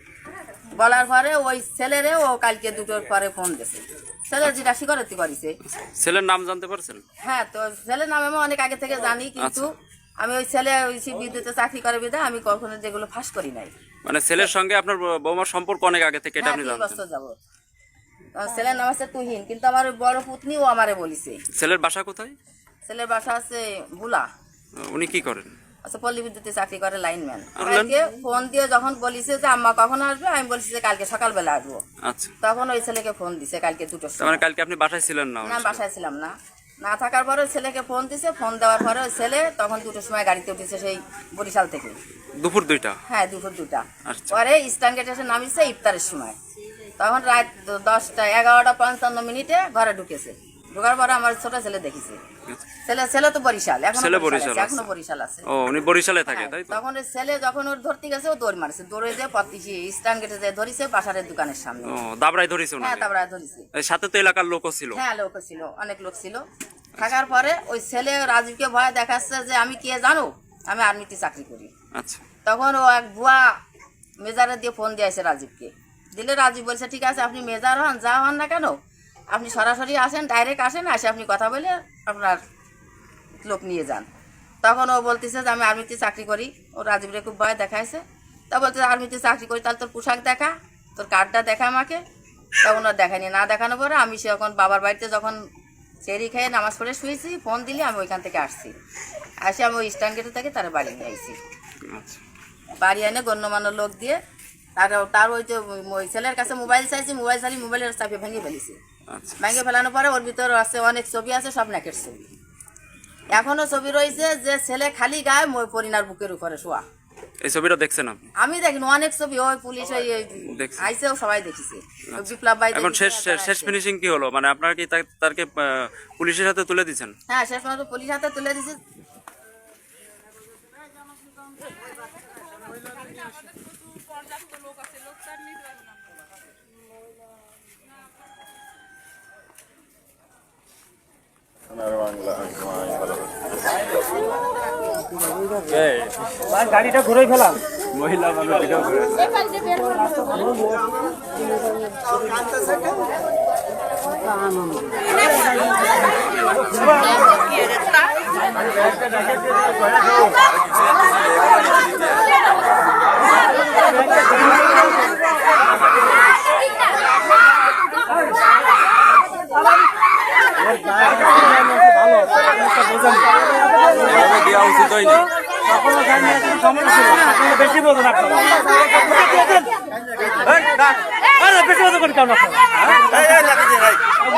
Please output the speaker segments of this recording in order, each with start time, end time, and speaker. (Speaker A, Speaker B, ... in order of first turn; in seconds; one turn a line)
Speaker A: 0.8-5.6
Speaker B: 5.8-7.0
Speaker A: 7.2-9.7
Speaker B: 9.4-9.7
Speaker A: 10.2-13.7
Speaker B: 14.1-17.0
Speaker A: 16.4-17.4
Speaker A: 18.4-21.4
Speaker B: 21.6-22.4
Speaker A: 22.9-24.3
Speaker B: 24.9-25.5
Speaker A: 25.9-31.8
Speaker B: 27.6-27.9
Speaker B: 32.0-32.3
Speaker A: 32.4-34.4
Speaker B: 34.2-35.8
Speaker A: 35.4-42.0
Speaker B: 42.4-43.0
Speaker A: 43.1-46.4
Speaker B: 44.1-44.4
Speaker A: 47.0-52.2
Speaker A: 52.9-55.5
Speaker B: 53.9-54.9
Speaker B: 55.5-56.8
Speaker A: 56.3-62.0
Speaker B: 61.9-63.1
Speaker A: 62.8-63.7
Speaker B: 63.7-65.0
Speaker A: 64.9-66.4
Speaker A: 67.0-71.7
Speaker B: 72.0-72.2
Speaker A: 72.5-73.5
Speaker A: 74.2-78.8
Speaker A: 79.3-82.4
Speaker A: 83.4-84.1
Speaker A: 84.6-92.0
Speaker A: 92.6-95.4
Speaker A: 96.0-98.7
Speaker A: 99.4-101.3
Speaker B: 101.9-102.2
Speaker A: 102.8-104.2
Speaker A: 104.8-108.8
Speaker B: 109.1-109.6
Speaker A: 109.4-112.3
Speaker A: 113.3-116.8
Speaker B: 117.4-118.2
Speaker A: 118.4-123.8
Speaker B: 120.5-120.9
Speaker B: 122.1-127.1
Speaker A: 127.3-128.8
Speaker B: 145.7-146.1
Speaker C: 146.7-147.6
Speaker B: 147.9-149.2
Speaker C: 171.9-172.2
Speaker B: 174.0-175.2
Speaker C: 176.0-178.4
Speaker C: 181.5-183.4